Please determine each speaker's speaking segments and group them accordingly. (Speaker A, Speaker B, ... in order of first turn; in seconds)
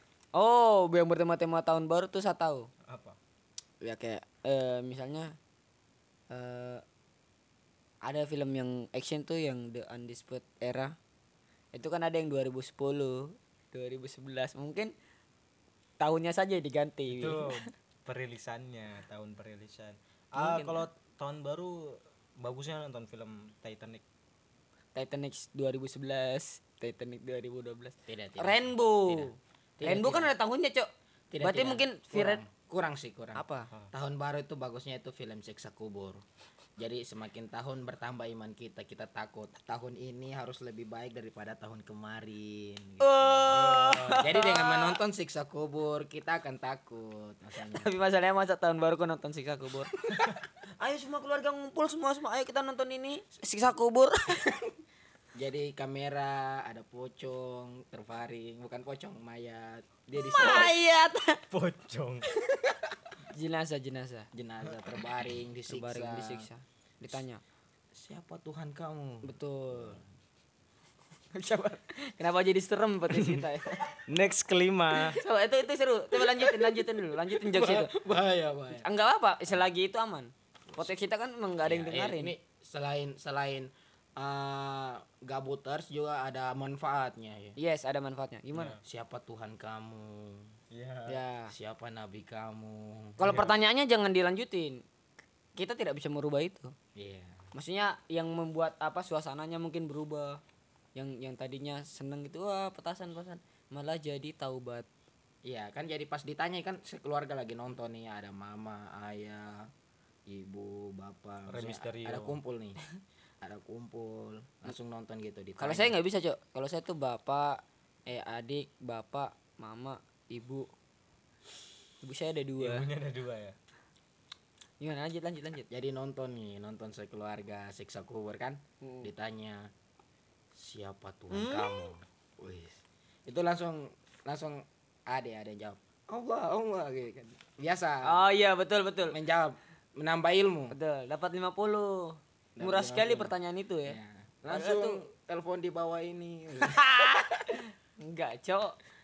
Speaker A: 0.3-2.7, 3.8-5.3, 6.3-6.8, 8.0-10.9, 11.7-14.9, 16.0-17.5, 20.4-20.9, 24.9-30.9, 31.4-32.4, 33.4-33.7, 43.0-45.0, 47.6-49.9, 50.8-54.5, 60.2-61.4, 63.3-64.3, 65.7-67.4, 69.2-70.0, 71.3-73.9, 75.1-77.9, 78.8-82.3, 87.6-88.8, 91.1-91.5, 93.2-94.8, 95.5-96.7, 97.5-100.4, 100.9-104.9, 115.6-120.7, 122.0-122.9, 124.8-125.7, 128.8-129.1, 131.3-131.9, 138.0-139.2, 140.7-144.0, 144.5-145.0, 146.6-148.8
Speaker B: 2.9-3.2, 17.1-24.0, 43.5-44.4, 61.5-62.2, 74.0-75.2, 88.5-88.8, 90.7-91.2, 93.2-93.6, 111.5-112.4, 122.6-123.5
Speaker C: 28.1-30.3, 31.3-36.2, 36.8-47.9, 55.4-60.7, 64.3-66.5, 67.9-70.0, 76.1-78.9, 81.6-87.6, 88.8-90.5, 91.5-93.2, 97.0-97.5, 105.4-109.7, 110.3-112.8, 113.4-115.9, 125.7-129.7, 130.5-138.2, 139.1-140.8, 142.6-147.3